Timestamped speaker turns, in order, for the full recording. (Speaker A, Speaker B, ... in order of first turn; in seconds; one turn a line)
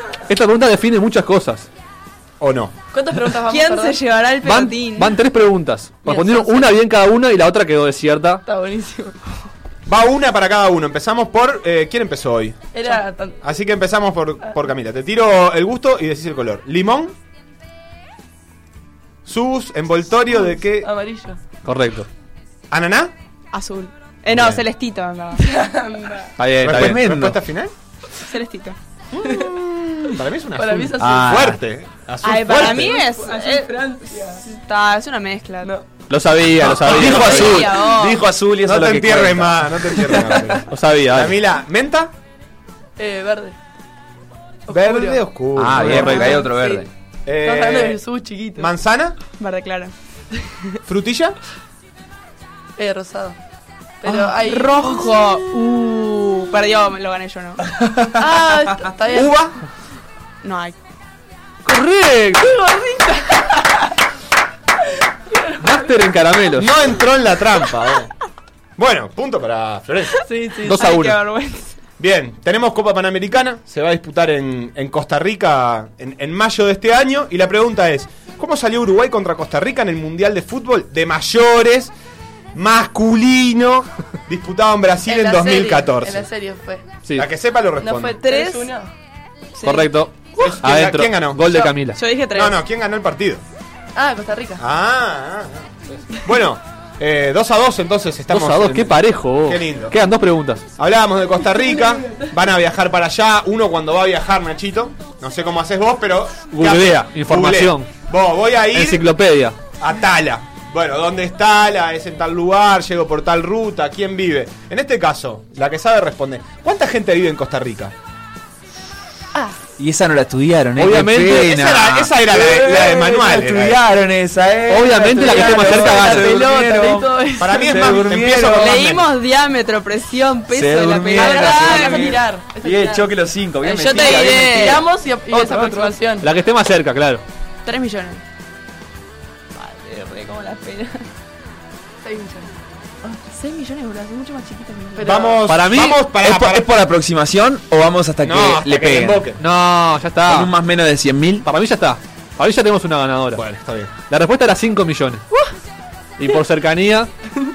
Speaker A: 0.3-1.7
Speaker B: 2.4-2.8
Speaker C: 2.9-4.0
Speaker D: 3.5-5.1
Speaker A: 4.4-8.4
Speaker C: 6.0-6.7
Speaker C: 8.4-9.2
Speaker B: 9.9-12.7
Speaker C: 12.7-13.4
Speaker B: 13.4-17.1
Speaker B: 19.2-20.9
Speaker C: 20.4-21.4
Speaker A: 21.6-22.1
Speaker B: 22.7-23.1
Speaker D: 23.5-25.5
Speaker B: 24.3-24.6
Speaker C: 25.4-26.3
Speaker A: 26.4-27.0
Speaker B: 26.6-27.7
Speaker E: 26.6-27.4
Speaker D: 28.3-28.8
Speaker B: 29.1-33.0
Speaker C: 29.2-29.6
Speaker C: 30.6-31.5
Speaker E: 31.0-31.6
Speaker D: 32.2-35.7
Speaker C: 32.5-34.4
Speaker A: 36.1-37.7
Speaker E: 36.6-40.2
Speaker B: 36.8-37.5
Speaker D: 37.1-38.2
Speaker B: 38.6-42.1
Speaker A: 40.7-41.4
Speaker C: 43.0-43.5
Speaker C: 44.7-45.2
Speaker B: 44.7-46.3
Speaker E: 45.5-46.9
Speaker A: 45.7-46.4
Speaker C: 45.9-46.9
Speaker B: 47.2-48.0
Speaker C: 47.4-48.7
Speaker B: 48.6-49.2
Speaker D: 49.4-49.9
Speaker B: 50.9-51.4
Speaker C: 52.8-53.4
Speaker C: 54.0-55.1
Speaker D: 54.1-57.6
Speaker C: 58.1-59.4
Speaker B: 59.1-59.5
Speaker D: 60.4-60.8
Speaker A: 61.6-62.5
Speaker C: 62.4-63.9
Speaker C: 65.3-65.9
Speaker A: 65.6-66.7
Speaker B: 66.5-68.1
Speaker B: 68.8-70.2
Speaker C: 70.2-70.8
Speaker A: 70.6-71.2
Speaker D: 70.7-71.8
Speaker B: 72.0-81.9
Speaker B: 82.5-86.2
Speaker C: 85.0-86.8
Speaker B: 87.2-88.2
Speaker C: 87.8-88.9
Speaker D: 88.1-88.7
Speaker D: 89.5-90.5
Speaker A: 89.6-92.0
Speaker B: 90.4-91.6
Speaker D: 91.9-92.6
Speaker B: 92.3-93.4
Speaker C: 93.9-94.6
Speaker B: 94.6-99.9
Speaker A: 98.3-100.6
Speaker B: 100.8-109.0
Speaker C: 101.5-102.3
Speaker A: 106.5-107.9
Speaker A: 108.7-109.6
Speaker B: 109.8-117.9
Speaker E: 119.8-128.8
Speaker A: 120.8-121.5
Speaker B: 121.3-123.8
Speaker C: 122.5-122.9
Speaker A: 124.7-126.4
Speaker C: 125.1-128.0
Speaker B: 127.4-129.1
Speaker D: 128.5-132.2
Speaker E: 130.5-136.0
Speaker C: 131.1-133.1
Speaker D: 133.6-134.8
Speaker C: 133.8-136.3
Speaker A: 136.2-137.2
Speaker D: 137.6-138.2
Speaker D: 139.5-141.1
Speaker C: 142.0-142.5
Speaker D: 143.0-145.3
Speaker C: 144.9-145.4
Speaker B: 145.0-146.7
Speaker A: 145.5-146.0
Speaker E: 146.2-149.2
Speaker B: 148.2-149.4
Speaker A: 149.4-150.5
Speaker E: 150.2-151.4
Speaker A: 151.4-153.4
Speaker B: 153.3-153.9
Speaker A: 154.1-155.3
Speaker A: 156.2-157.1